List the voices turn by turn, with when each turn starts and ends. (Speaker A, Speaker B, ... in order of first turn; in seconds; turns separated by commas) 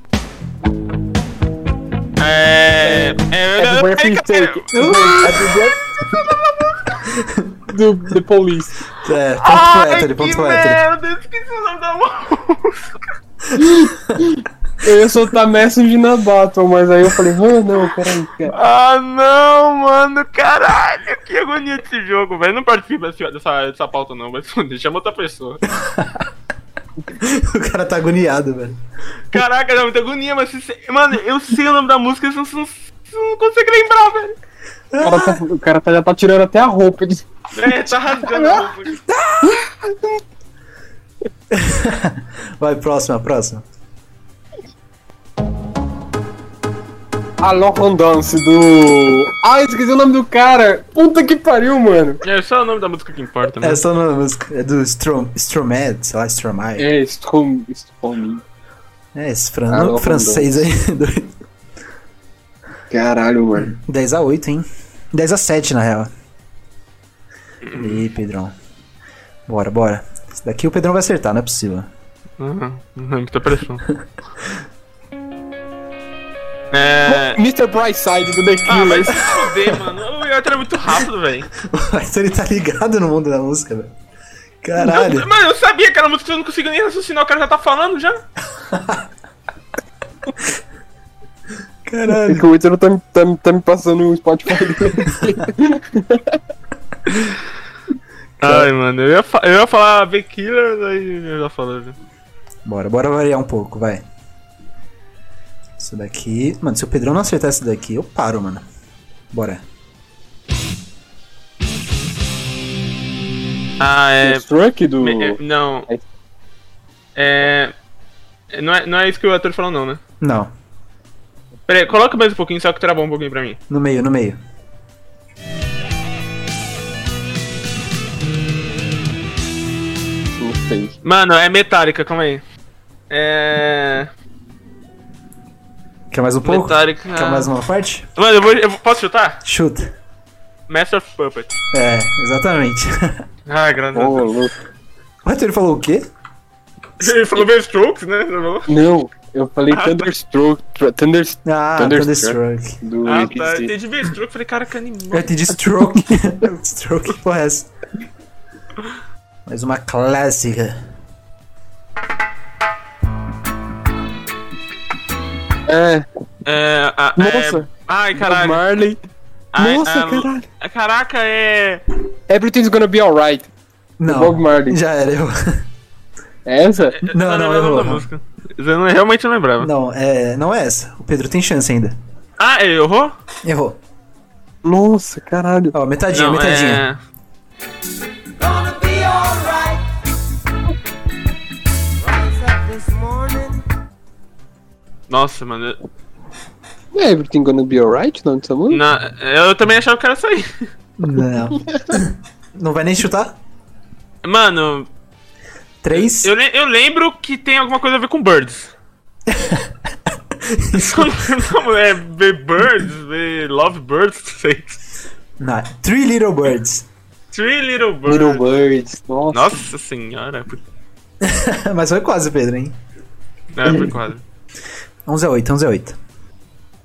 Speaker A: 2.2-7.1, Speaker B: 2.8-5.8, Speaker C: 4.7-5.5, Speaker C: 7.2-7.5, Speaker B: 7.7-8.8, Speaker C: 9.0-10.8, Speaker A: 9.4-13.0, Speaker B: 13.6-18.5, Speaker A: 18.5-25.6, Speaker C: 25.8-26.2, Speaker C: 27.2-28.8, Speaker A: 29.3-34.4, Speaker C: 34.9-35.4, Speaker B: 35.0-37.2, Speaker A: 37.5-39.0, Speaker B: 38.2-38.6, Speaker C: 39.1-39.6, Speaker B: 39.4-40.2, Speaker C: 41.5-43.6, Speaker B: 47.4-52.2, Speaker A: 52.2-53.8, Speaker C: 53.6-56.9, Speaker B: 56.8-58.4, Speaker C: 59.1-61.3, Speaker B: 59.7-60.6, Speaker B: 62.9-63.7, Speaker C: 63.6-66.1, Speaker A: 67.6-68.0, Speaker C: 67.7-68.5, Speaker C: 69.5-71.9, Speaker A: 72.4-73.9, Speaker A: 76.7-77.4, Speaker B: 77.1-79.5, Speaker A: 78.7-81.5, Speaker C: 81.6-83.9, Speaker C: 84.6-85.3, Speaker A: 84.8-88.2, Speaker C: 88.6-89.1, Speaker C: 91.8-92.5, Speaker B: 92.1-96.4, Speaker A: 98.4-101.9, Speaker C: 102.7-104.0, Speaker C: 105.8-108.7, Speaker C: 109.3-109.6, Speaker A: 113.8-114.5, Speaker B: 114.2-116.0, Speaker A: 115.0-115.9, Speaker A: 117.2-117.7, Speaker A: 118.5-120.0, Speaker C: 120.2-120.5, Speaker A: 121.7-123.6, Speaker C: 123.7-124.4, Speaker B: 130.4-130.9, Speaker A: 131.0-132.4, Speaker A: 133.1-134.1, Speaker C: 136.1-138.1, Speaker A: 136.4-137.5, Speaker A: 138.2-139.4, Speaker C: 139.4-139.9, Speaker A: 140.7-141.6, Speaker C: 141.7-143.2, Speaker A: 143.5-144.3, Speaker B: 143.9-144.5, Speaker C: 145.2-146.1, Speaker A: 147.0-148.7, Speaker B: 148.7-153.7, Speaker A: 149.7-150.1, Speaker C: 151.4-152.8, Speaker A: 153.1-155.5, Speaker C: 155.1-157.7, Speaker B: 155.9-156.2, Speaker C: 159.5-160.8, Speaker B: 165.7-166.1, Speaker A: 166.4-168.6, Speaker B: 167.2-169.0, Speaker A: 169.5-171.8, Speaker B: 169.6-170.4, Speaker B: 172.3-173.5, Speaker C: 174.0-175.6, Speaker B: 174.1-174.8, Speaker B: 176.4-177.0, Speaker A: 177.0-179.7, Speaker C: 177.1-178.1, Speaker C: 179.6-182.0, Speaker A: 182.4-183.1, Speaker C: 183.4-183.8, Speaker B: 184.6-185.7, Speaker C: 185.7-186.8, Speaker A: 186.1-187.0, Speaker D: 188.6-189.5, Speaker D: 192.1-193.6, Speaker A: 195.1-195.8, Speaker B: 196.9-198.8, Speaker A: 198.7-200.7, Speaker C: 201.0-203.4, Speaker A: 204.2-204.9, Speaker C: 205.8-206.3, Speaker A: 205.9-208.7, Speaker C: 209.3-211.2, Speaker A: 210.7-214.8, Speaker C: 215.4-216.8, Speaker A: 217.3-218.4, Speaker B: 218.1-219.5, Speaker A: 219.3-220.6, Speaker C: 221.2-222.8, Speaker A: 223.6-224.2, Speaker B: 223.6-223.9, Speaker C: 225.1-226.0